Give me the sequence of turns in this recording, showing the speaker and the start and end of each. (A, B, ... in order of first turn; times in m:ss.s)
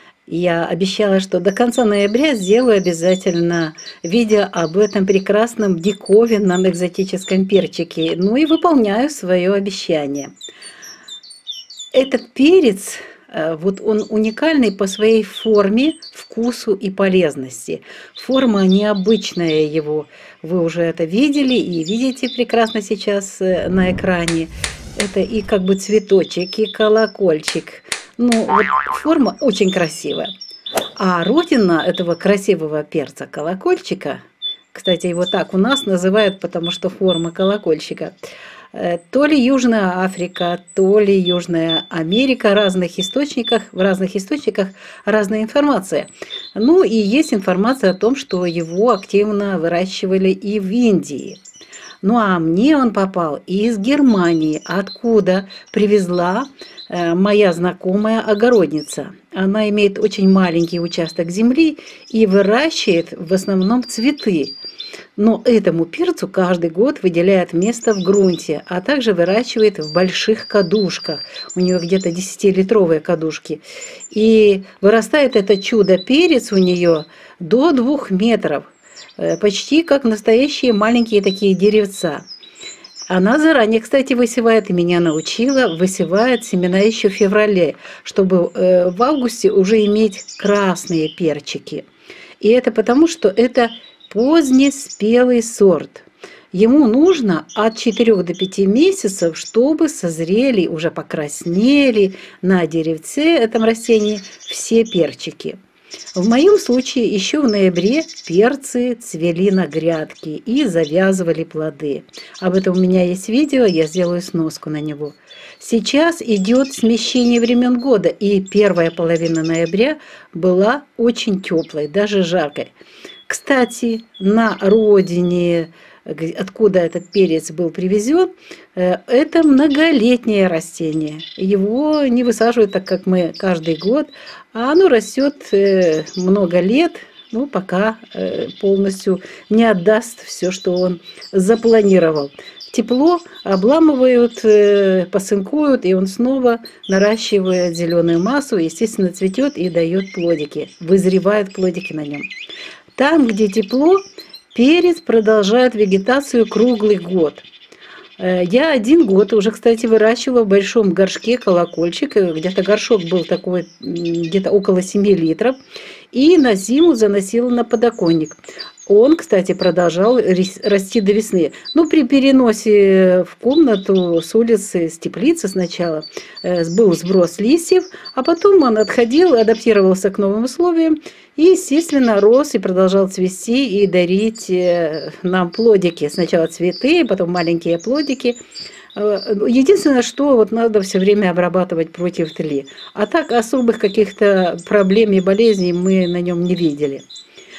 0:00.3-0:10.3 A
0:11.9-0:30.3 A
0:31.0-0:34.2 A
0:34.7-0:38.2 A
0:38.7-0:51.4 A
0:52.0-1:04.6 A
1:05.2-1:22.3 A
1:23.1-1:31.8 A
1:32.4-1:45.6 A
1:46.2-2:02.7 A
2:03.3-2:32.3 A
2:33.0-2:37.4 A
2:38.2-2:45.6 A
2:46.1-3:08.4 A
3:09.0-3:17.0 A